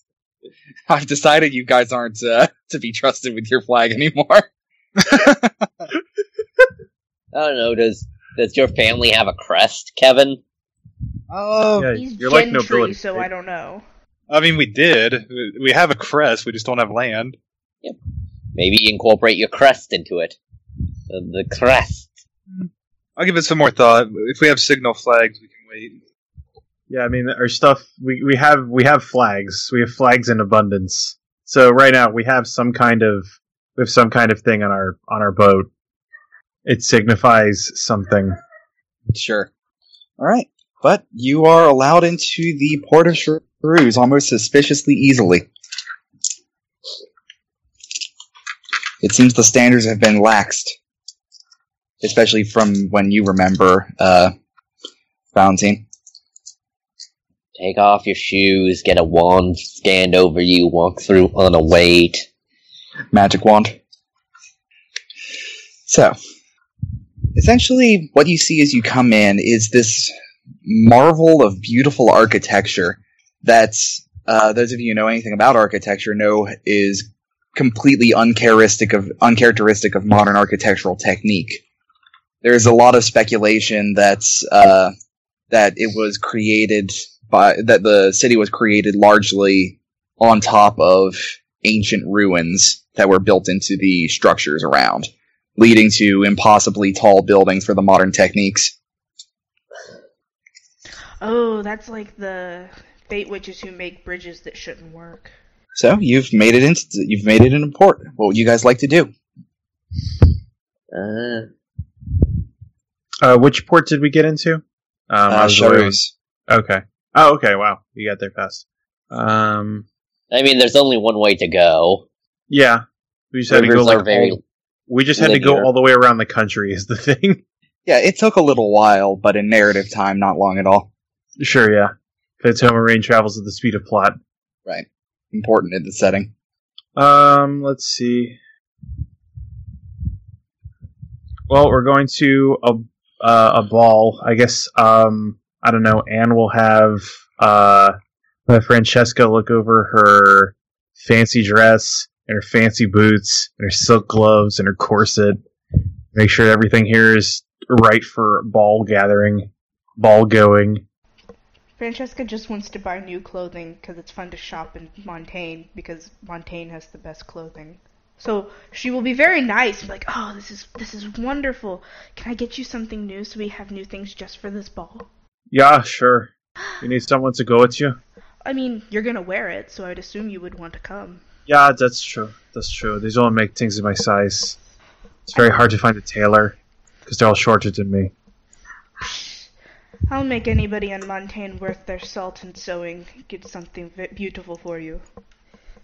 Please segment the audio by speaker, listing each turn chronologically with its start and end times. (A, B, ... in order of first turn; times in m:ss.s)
0:00.9-0:04.5 A
0:05.0-0:05.4 A
0:07.3-0:10.4 B
0:11.3-0:11.9 C
0:11.8-0:13.3 D
0:11.9-0:13.8 E
0:14.3-0:17.4 C
0:18.6-0:20.4 B
0:21.1-0:22.2 B
0:22.5-0:26.0 C
0:26.9-0:35.7 D
0:36.6-0:38.4 D
0:39.1-0:39.5 A
0:40.2-0:45.5 A
0:49.0-0:50.8 A
0:52.0-0:54.3 A
0:55.3-0:55.8 A
0:57.6-1:02.3 B
1:03.1-1:03.8 A
1:05.9-1:06.2 A
1:07.4-1:10.1 A
1:10.6-1:21.6 A
1:22.4-1:24.9 A
1:25.5-1:38.7 A
1:41.2-1:45.4 E
1:45.8-1:49.1 A
1:50.9-1:51.5 B
1:53.2-1:56.0 D
1:55.3-1:56.1 A
1:56.5-1:59.9 D
2:00.3-2:02.1 B
2:02.5-2:07.4 D
2:03.5-2:04.4 B
2:05.2-2:05.7 B
2:07.9-2:10.9 A
2:11.4-2:14.2 D
2:14.7-2:16.3 A
2:17.0-2:18.4 D
2:21.5-2:35.4 D
2:36.1-2:40.8 D
2:41.8-2:55.1 E
2:55.5-2:56.3 D
2:56.8-2:58.0 D
2:58.4-3:01.2 E
3:01.5-3:04.6 D
3:05.3-3:08.1 D
3:09.0-3:09.5 E
3:10.1-3:15.0 E